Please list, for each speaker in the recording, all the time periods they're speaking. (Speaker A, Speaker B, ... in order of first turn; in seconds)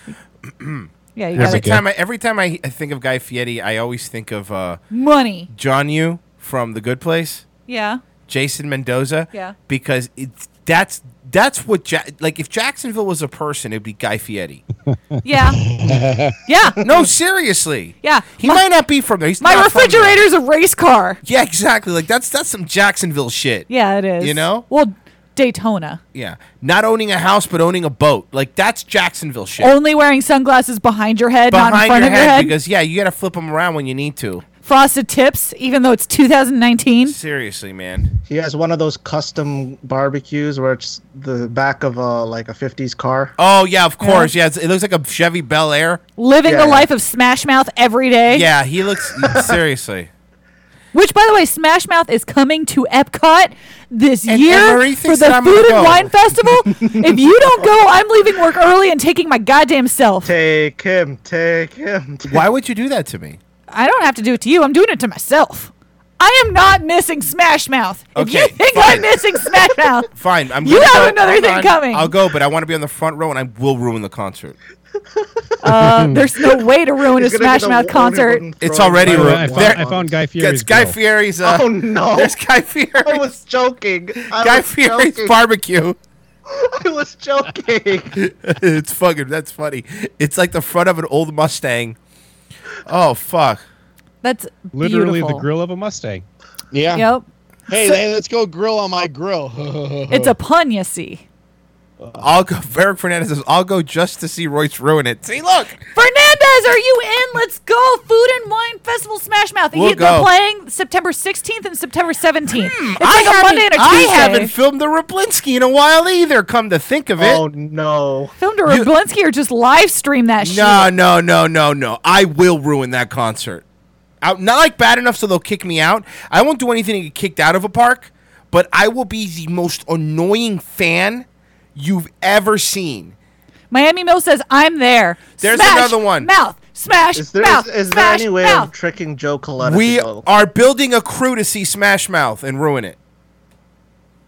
Speaker A: 0.5-4.8, 5.5-7.5, 8.3-14.6, 16.8-20.2, 21.2-23.7, 24.2-24.7, 26.1-29.7, 31.5-34.5, 37.1-38.1, 43.4-46.0, 48.3-50.1, 54.3-56.1, 62.3-63.4, 68.2-69.1, 70.1-74.6, 78.6-83.3, 84.3-86.0, 88.2-92.0, 92.9-93.6, 102.2-105.8, 109.7-110.3, 112.5-117.4, 120.4-123.6, 124.2-133.2, 135.4-136.3, 139.6-143.0
Speaker B: 1.2-1.7, 4.9-5.5, 7.7-8.0, 15.2-15.6, 16.5-16.8, 18.0-18.6, 19.4-21.2, 23.7-26.0, 29.6-32.5, 34.6-37.2, 44.0-44.3, 46.2-48.5, 50.9-60.3, 63.7-70.1, 70.6-72.1, 75.6-78.4, 94.2-95.5, 96.9-97.3, 100.1-101.2, 106.0-114.5, 118.4-120.9, 133.7-138.7
Speaker C: 1.4-1.8, 75.8-76.2, 79.0-81.0, 94.7-96.2
Speaker D: 15.8-16.4, 96.7-97.1, 97.7-100.3, 102.0-102.3
Speaker E: 38.3-43.3, 46.5-46.9, 56.9-57.2, 60.2-62.4, 77.1-80.1, 81.4-82.4, 83.0-85.3, 86.5-88.2, 117.2-118.3, 137.2-140.2